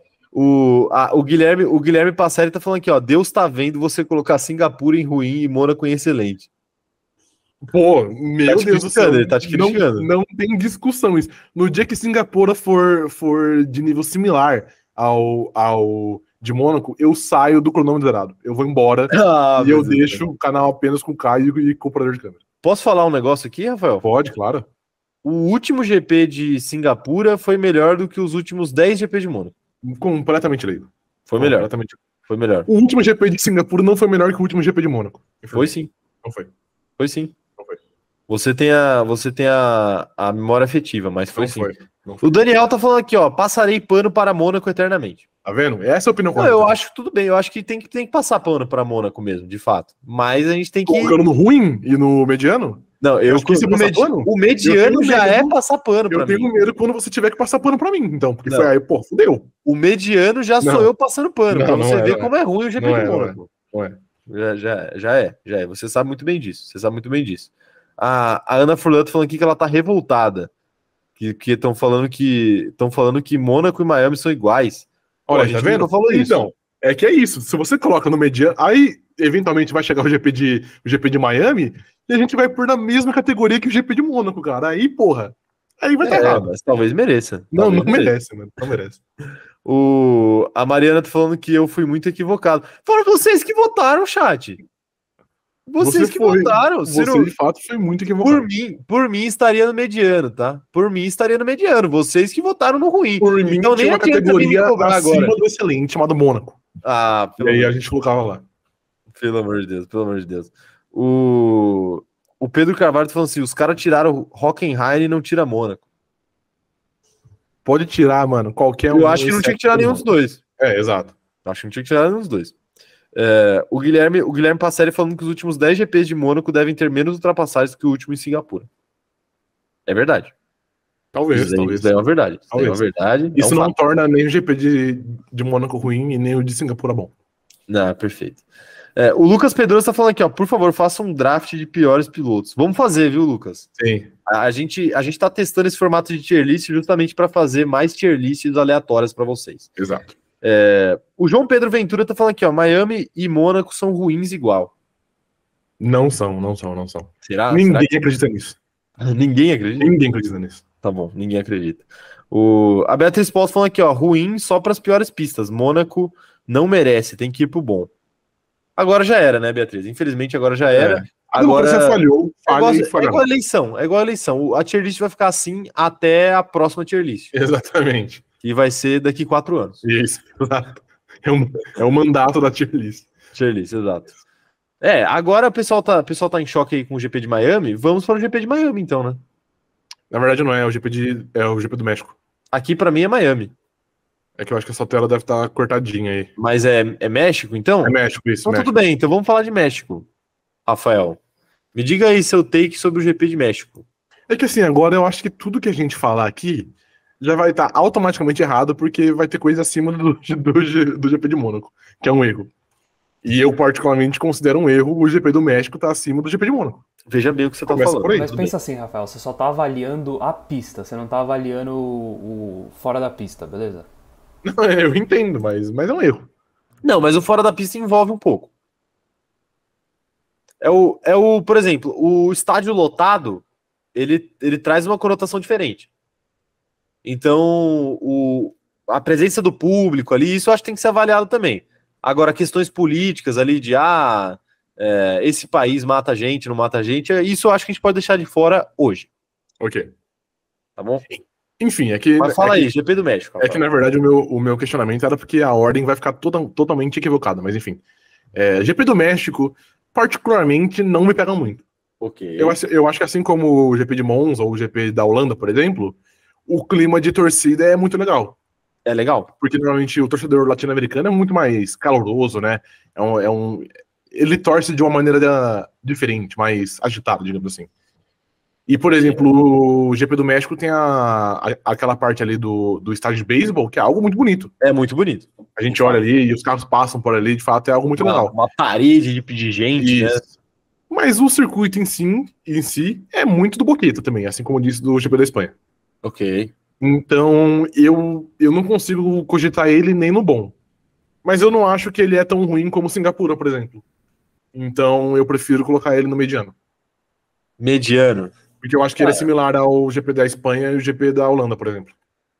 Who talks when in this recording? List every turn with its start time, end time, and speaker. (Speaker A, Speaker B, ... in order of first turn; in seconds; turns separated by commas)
Speaker A: 0.3-6.5, Speaker B: 7.6-22.4, Speaker A: 8.5-10.1, Speaker A: 19.1-20.2, Speaker A: 22.6-24.1, Speaker B: 24.0-24.7, Speaker A: 25.2-29.5, Speaker B: 29.8-32.0, Speaker A: 31.3-31.7, Speaker A: 32.3-32.7, Speaker B: 32.7-35.7, Speaker A: 35.5-35.9, Speaker B: 36.2-36.5, Speaker A: 37.0-37.3, Speaker A: 38.3-45.2, Speaker B: 41.4-42.4, Speaker B: 45.5-46.7, Speaker A: 46.4-51.2, Speaker B: 50.9-55.5, Speaker A: 53.0-56.5, Speaker B: 56.1-59.5, Speaker A: 58.5-58.7, Speaker A: 59.6-63.5, Speaker B: 60.6-60.9, Speaker B: 61.5-64.0, Speaker A: 64.3-70.5, Speaker A: 71.2-76.5, Speaker B: 75.3-86.5, Speaker A: 86.0-88.1, Speaker B: 87.5-89.0, Speaker A: 89.7-94.6, Speaker A: 95.7-97.3, Speaker B: 95.8-98.5, Speaker A: 98.2-105.4, Speaker B: 103.2-106.6, Speaker A: 106.8-107.7, Speaker B: 107.4-108.4, Speaker A: 109.2-115.8, Speaker B: 117.7-120.0, Speaker A: 118.9-120.4, Speaker B: 120.6-121.2, Speaker A: 121.5-122.5, Speaker A: 123.2-128.7, Speaker A: 129.9-130.3, Speaker B: 131.1-132.0, Speaker A: 131.3-133.7, Speaker B: 132.5-132.8, Speaker B: 133.3-137.1, Speaker A: 137.7-138.4, Speaker A: 139.0-143.7, Speaker B: 143.8-144.1, Speaker A: 144.3-149.7, Speaker B: 149.8-150.1, Speaker A: 150.4-154.7, Speaker B: 155.8-158.6, Speaker A: 157.2-157.9, Speaker A: 159.0-159.9, Speaker B: 159.8-160.6, Speaker A: 160.8-167.9, Speaker A: 168.8-177.3, Speaker B: 170.8-173.2, Speaker B: 177.3-178.2, Speaker A: 178.4-179.8, Speaker B: 179.8-183.1, Speaker A: 183.3-184.1, Speaker A: 184.8-189.2, Speaker B: 190.1-192.2, Speaker A: 192.5-193.5, Speaker B: 194.4-196.3, Speaker A: 196.4-200.1, Speaker B: 197.8-198.7, Speaker A: 200.7-201.2, Speaker A: 201.7-203.8, Speaker B: 204.3-212.5, Speaker B: 213.2-216.8, Speaker A: 217.1-218.5, Speaker B: 217.6-218.4, Speaker C: 218.1-223.9, Speaker B: 224.4-226.3, Speaker A: 226.8-228.5, Speaker A: 230.6-233.4, Speaker A: 233.9-235.9, Speaker A: 237.0-249.1, Speaker B: 249.6-249.9, Speaker A: 250.8-251.1, Speaker B: 251.1-252.7, Speaker A: 252.2-253.6, Speaker B: 253.4-257.8, Speaker B: 258.3-261.6, Speaker A: 262.0-262.6, Speaker B: 262.4-268.4, Speaker A: 268.9-269.3, Speaker B: 269.4-277.7, Speaker B: 278.7-284.5, Speaker A: 284.6-286.0, Speaker B: 285.6-288.4, Speaker A: 288.0-290.2, Speaker B: 289.8-290.2, Speaker B: 290.9-295.5, Speaker A: 296.0-296.5, Speaker B: 296.8-300.5, Speaker B: 301.2-303.8, Speaker B: 304.5-306.5, Speaker A: 307.6-308.3, Speaker B: 308.6-311.9, Speaker A: 309.0-309.2